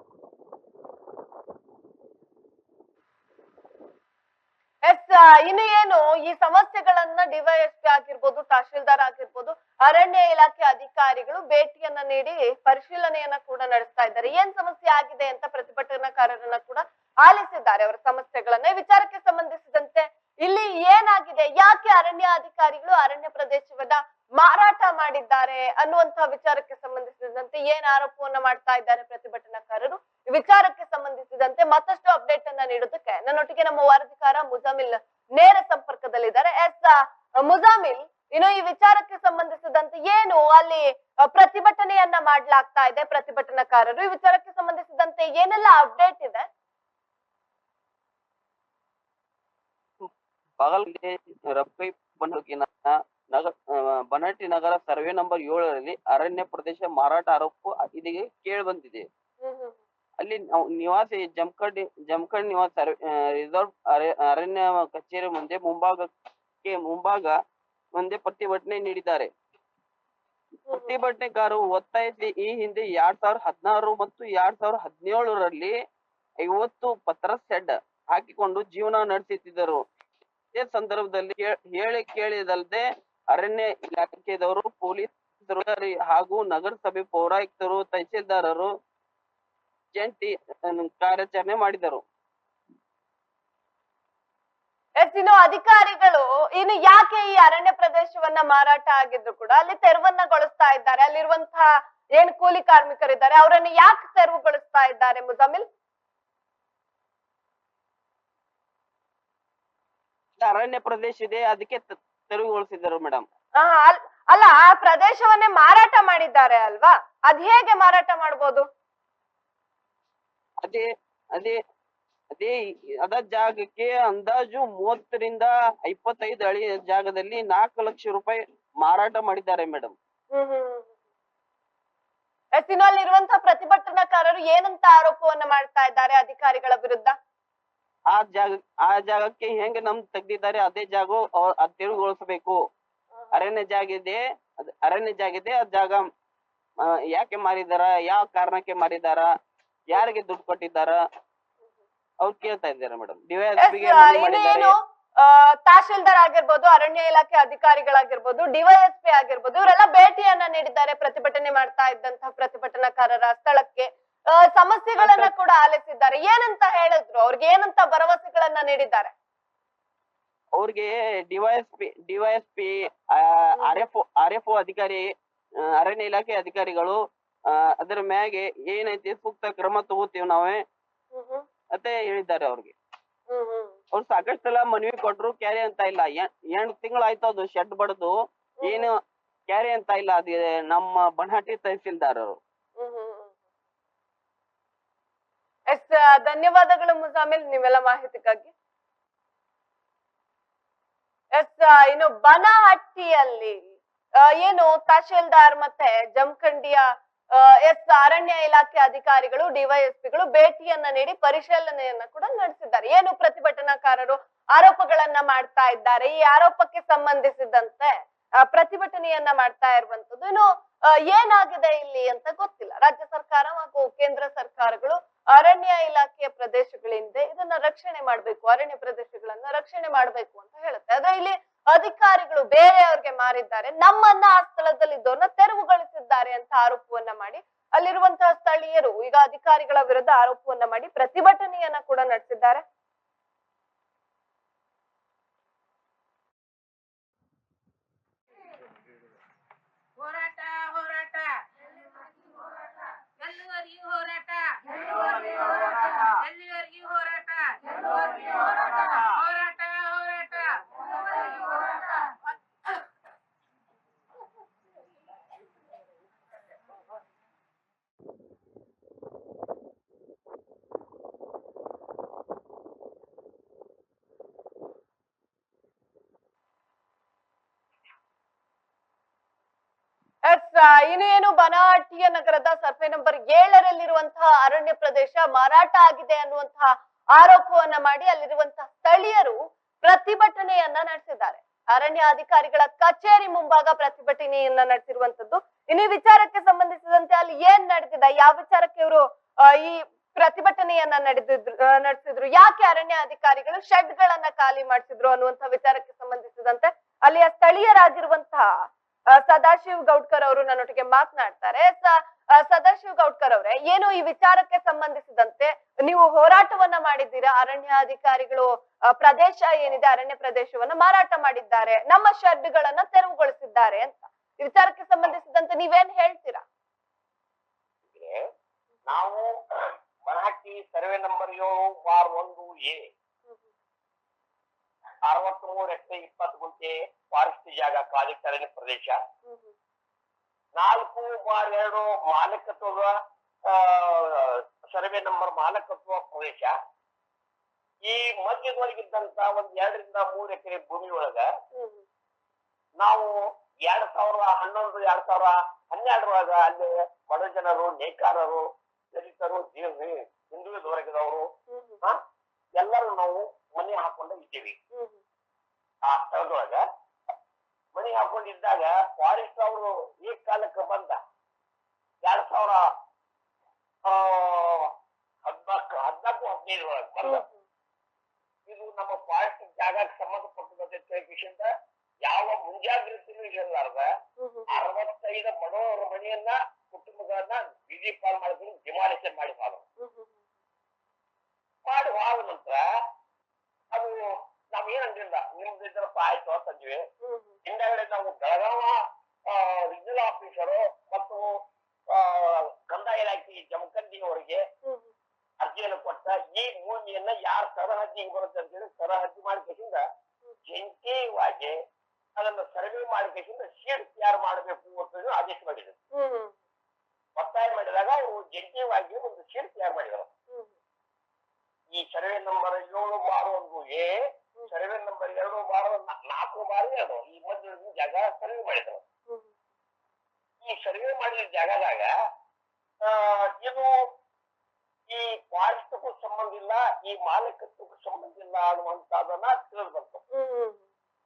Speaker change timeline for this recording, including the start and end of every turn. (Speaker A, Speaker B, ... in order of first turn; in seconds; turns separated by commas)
Speaker A: 4.9-46.5, Speaker B: 50.6-59.1, Speaker A: 59.4-59.8, Speaker B: 60.2-66.1, Speaker B: 66.6-67.4, Speaker B: 68.0-69.3, Speaker A: 70.7-71.0, Speaker B: 70.7-75.8, Speaker B: 76.5-79.8, Speaker B: 80.6-88.7, Speaker B: 90.0-92.0, Speaker A: 95.0-105.7, Speaker B: 110.4-113.3, Speaker A: 113.6-118.7, Speaker B: 120.6-121.6, Speaker B: 122.4-129.9, Speaker A: 130.3-130.9, Speaker A: 132.6-137.2, Speaker B: 138.1-142.6, Speaker B: 143.3-146.1, Speaker B: 146.8-149.3, Speaker B: 149.9-151.0, Speaker B: 152.2-154.7, Speaker A: 153.6-169.1, Speaker B: 165.0-165.3, Speaker B: 170.6-175.1, Speaker A: 173.6-173.9, Speaker B: 175.8-180.7, Speaker A: 181.1-181.5, Speaker B: 181.7-182.7, Speaker A: 183.3-183.8, Speaker B: 183.9-192.4, Speaker A: 188.6-188.9, Speaker A: 192.8-193.3, Speaker A: 195.7-198.5, Speaker A: 201.4-242.6, Speaker C: 250.0-262.3, Speaker B: 254.9-256.1, Speaker B: 258.7-259.1, Speaker A: 280.3-326.4, Speaker D: 327.9-328.2, Speaker D: 328.9-332.9, Speaker D: 335.1-339.0, Speaker A: 339.3-339.5, Speaker D: 340.6-346.6, Speaker D: 347.8-351.3, Speaker A: 351.5-351.8, Speaker D: 352.8-353.1, Speaker D: 353.7-361.3, Speaker A: 361.5-361.8, Speaker D: 362.6-364.6, Speaker A: 364.7-365.0, Speaker D: 365.9-366.6, Speaker D: 367.8-371.0, Speaker D: 372.0-372.7, Speaker D: 373.9-374.7, Speaker D: 375.2-377.2, Speaker A: 377.0-377.3, Speaker D: 378.5-381.5, Speaker D: 382.1-383.9, Speaker A: 384.2-384.6, Speaker D: 384.5-389.6, Speaker A: 389.8-390.1, Speaker D: 391.7-392.6, Speaker D: 393.7-396.9, Speaker A: 397.0-397.4, Speaker D: 397.4-404.4, Speaker A: 404.6-404.9, Speaker D: 405.4-409.8, Speaker D: 410.5-411.6, Speaker D: 412.2-415.8, Speaker A: 415.9-416.3, Speaker D: 417.2-420.1, Speaker D: 421.7-428.8, Speaker D: 430.4-431.9, Speaker D: 432.8-433.9, Speaker D: 434.9-440.0, Speaker A: 440.1-440.6